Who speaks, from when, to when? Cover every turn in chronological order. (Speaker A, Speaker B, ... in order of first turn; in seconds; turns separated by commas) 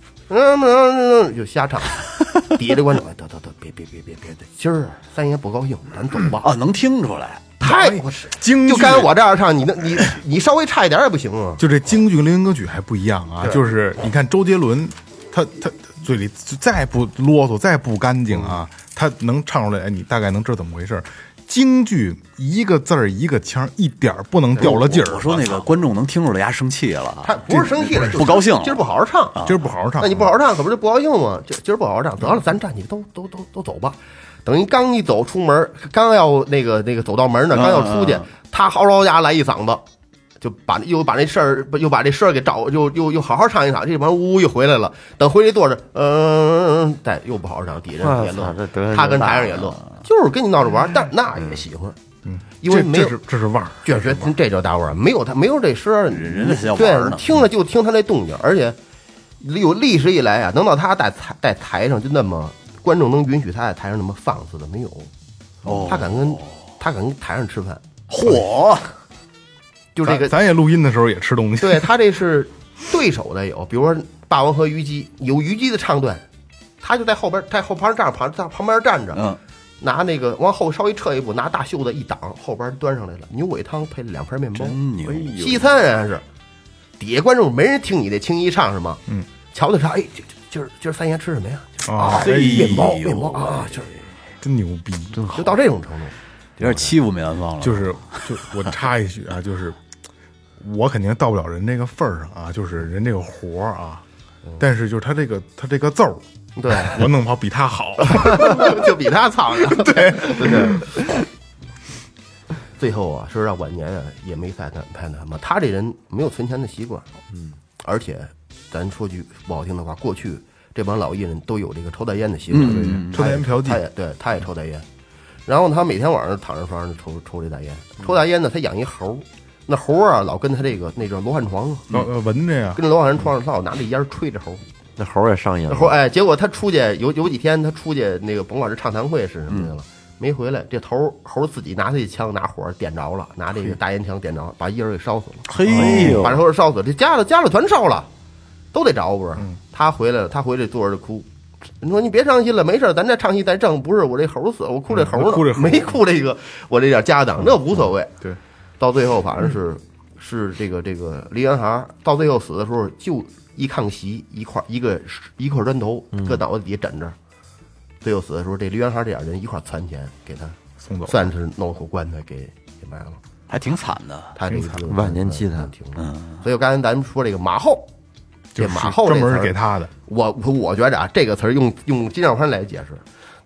Speaker A: 0.3-6.5, Speaker B: 6.4-7.5, Speaker A: 7.6-11.6, Speaker C: 7.6-9.1, Speaker C: 11.6-25.4, Speaker A: 24.6-25.1, Speaker B: 24.6-28.9, Speaker A: 27.2-29.4, Speaker C: 27.5-28.2, Speaker C: 29.4-30.3, Speaker A: 30.0-39.8, Speaker B: 37.5-38.2, Speaker A: 40.4-52.0, Speaker D: 48.0-49.7, Speaker C: 52.2-54.3, Speaker A: 52.6-53.2, Speaker A: 53.8-58.8, Speaker B: 56.1-57.4, Speaker A: 59.4-65.1, Speaker B: 65.7-66.4, Speaker A: 65.9-67.8, Speaker B: 68.1-68.9, Speaker A: 69.9-70.3, Speaker C: 70.0-71.9, Speaker A: 71.6-76.2, Speaker A: 76.8-79.2, Speaker B: 79.1-79.4, Speaker A: 79.8-84.8, Speaker B: 84.6-85.4, Speaker D: 85.1-85.7, Speaker A: 85.3-86.2, Speaker A: 87.0-89.0, Speaker A: 89.5-93.9, Speaker C: 91.8-92.9, Speaker B: 92.0-93.7, Speaker C: 94.4-95.2, Speaker D: 95.1-95.6, Speaker A: 95.3-96.1, Speaker D: 96.6-97.0, Speaker B: 96.6-98.3, Speaker C: 97.6-99.8, Speaker C: 100.6-104.0, Speaker C: 104.6-106.2, Speaker A: 106.6-107.0, Speaker C: 106.8-108.9, Speaker A: 108.0-110.9, Speaker C: 109.6-110.9, Speaker A: 112.8-117.1, Speaker A: 117.8-124.8, Speaker B: 122.5-123.2, Speaker C: 122.6-123.8, Speaker A: 125.5-131.9, Speaker C: 131.9-132.8, Speaker A: 132.7-134.6, Speaker D: 135.0-135.9, Speaker A: 135.7-148.1, Speaker B: 145.5-146.4, Speaker D: 145.6-146.4, Speaker C: 145.7-146.2, Speaker A: 148.7-151.3, Speaker A: 151.8-158.2, Speaker C: 154.9-156.0, Speaker A: 158.8-167.2, Speaker D: 166.1-166.4, Speaker A: 168.0-173.2, Speaker C: 170.8-171.2, Speaker B: 173.5-174.3, Speaker A: 174.3-177.9, Speaker C: 174.5-174.8, Speaker D: 174.8-175.7, Speaker B: 176.0-176.4, Speaker C: 178.6-179.9, Speaker A: 178.6-183.0